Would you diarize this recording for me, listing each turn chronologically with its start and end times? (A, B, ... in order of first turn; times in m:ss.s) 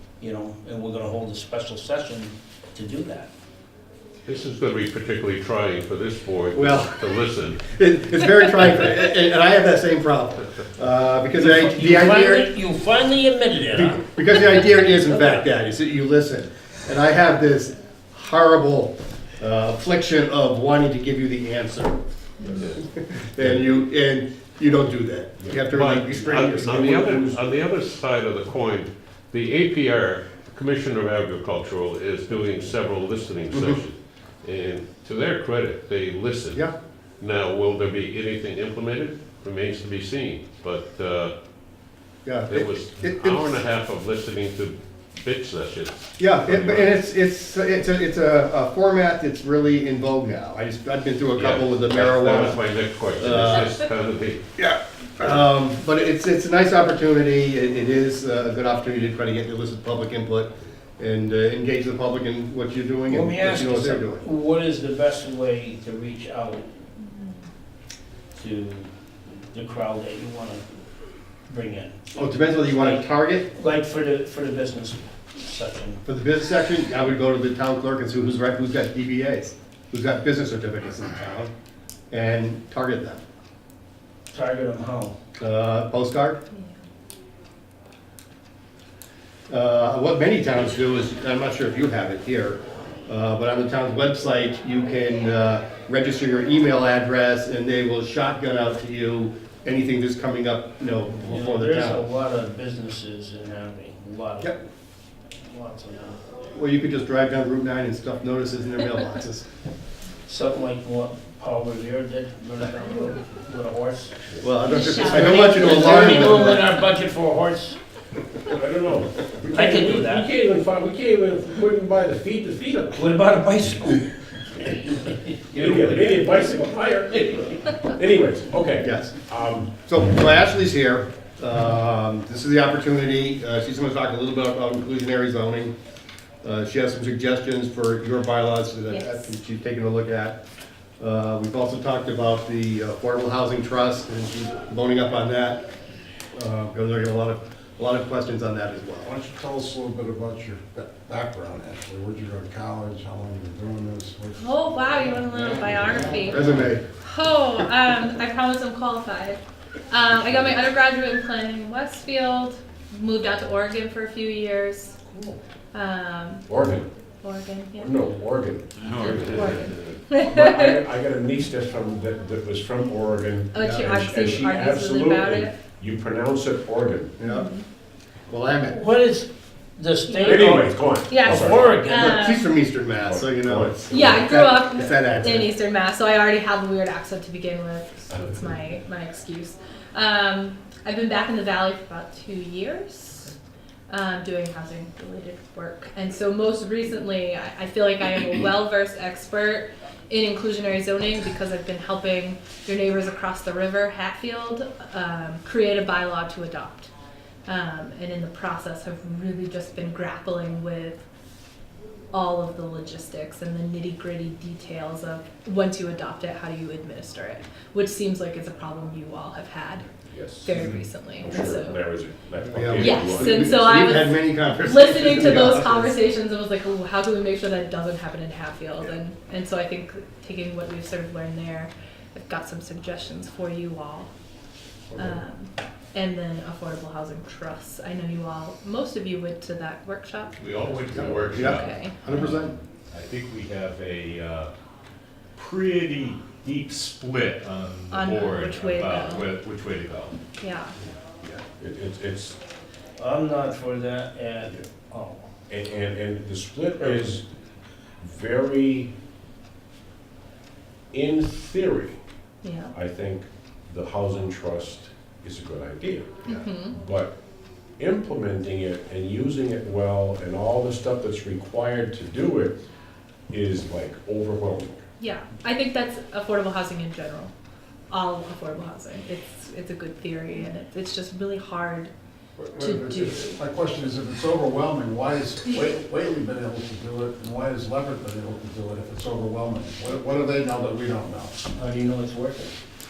0:00.2-0:03.3 A
0:04.2-0:07.6 B
0:06.5-0:12.5 C
0:11.3-0:14.0 A
0:13.7-0:22.0 C
0:22.4-0:22.8 D
0:22.8-0:26.8 C
0:25.4-0:25.6 D
0:25.7-0:36.6 B
0:26.2-0:27.4 D
0:37.2-0:41.3 B
0:42.2-0:43.6 C
0:42.5-0:46.9 B
0:46.2-0:52.6 C
0:51.4-0:54.4 B
0:53.2-0:53.7 C
0:54.6-1:04.2 C
1:03.1-1:06.7 A
1:07.1-1:07.3 E
1:08.3-1:08.9 A
1:09.5-1:10.6 A
1:11.5-1:16.0 A
1:12.2-1:13.4 C
1:16.0-1:21.5 C
1:22.1-1:23.2 C
1:24.3-1:25.1 A
1:25.4-1:26.4 C
1:26.5-1:26.8 E
1:29.5-1:42.0 C
1:41.3-1:44.6 A
1:45.4-1:46.2 A
1:46.5-1:49.4 C
1:50.2-1:54.2 A
1:54.4-1:56.6 C
1:54.6-1:56.4 E
1:54.9-1:57.8 A
1:58.5-2:02.9 D
1:59.5-2:00.2 A
2:02.9-2:06.3 A
2:05.5-2:09.8 D
2:08.8-2:09.2 C
2:09.8-2:15.7 C
2:16.4-2:20.4 C
2:18.9-2:19.3 E
2:21.0-2:25.6 C
2:26.3-2:29.1 C
2:29.0-2:34.5 F
2:34.3-2:45.0 E
2:35.5-2:36.2 A
2:36.3-2:36.8 C
2:45.1-2:45.4 D
2:45.7-2:46.6 E
2:46.5-2:46.9 D
2:47.2-2:48.0 E
2:47.8-2:57.1 D
2:48.8-2:50.0 G
2:48.9-2:50.8 E
2:53.5-2:55.6 E
2:53.6-2:53.8 C
2:57.2-2:57.5 C
2:57.2-2:57.6 E
2:58.3-2:58.8 C
2:58.7-3:02.2 A
3:00.1-3:00.5 E
3:00.2-3:01.8 D
3:01.0-3:02.5 E
3:01.9-3:05.5 C
3:03.0-3:04.2 D
3:03.9-3:13.3 E
3:13.9-3:26.9 E
3:27.4-3:31.0 E
3:32.1-3:39.9 E
3:40.1-3:43.7 D
3:40.4-3:41.8 E
3:42.5-3:45.9 C
3:42.8-3:54.1 E
3:55.0-4:00.3 E
4:00.4-4:04.5 G
4:00.4-4:01.6 B
4:00.9-4:02.5 C
4:01.5-4:02.3 E
4:05.4-4:10.2 G
4:07.9-4:09.3 E
4:10.4-4:10.8 E
4:11.6-4:12.4 D
4:13.0-4:15.2 A
4:15.5-4:17.2 D
4:18.0-4:18.9 D
4:20.9-4:22.0 D
4:22.4-4:22.7 E
4:22.7-4:27.1 D
4:26.2-4:26.8 E
4:27.8-4:32.6 D
4:33.3-4:34.8 D
4:35.0-4:37.3 E
4:37.9-4:41.9 E
4:42.4-4:51.4 F
4:42.6-4:43.4 E
4:51.5-4:52.6 A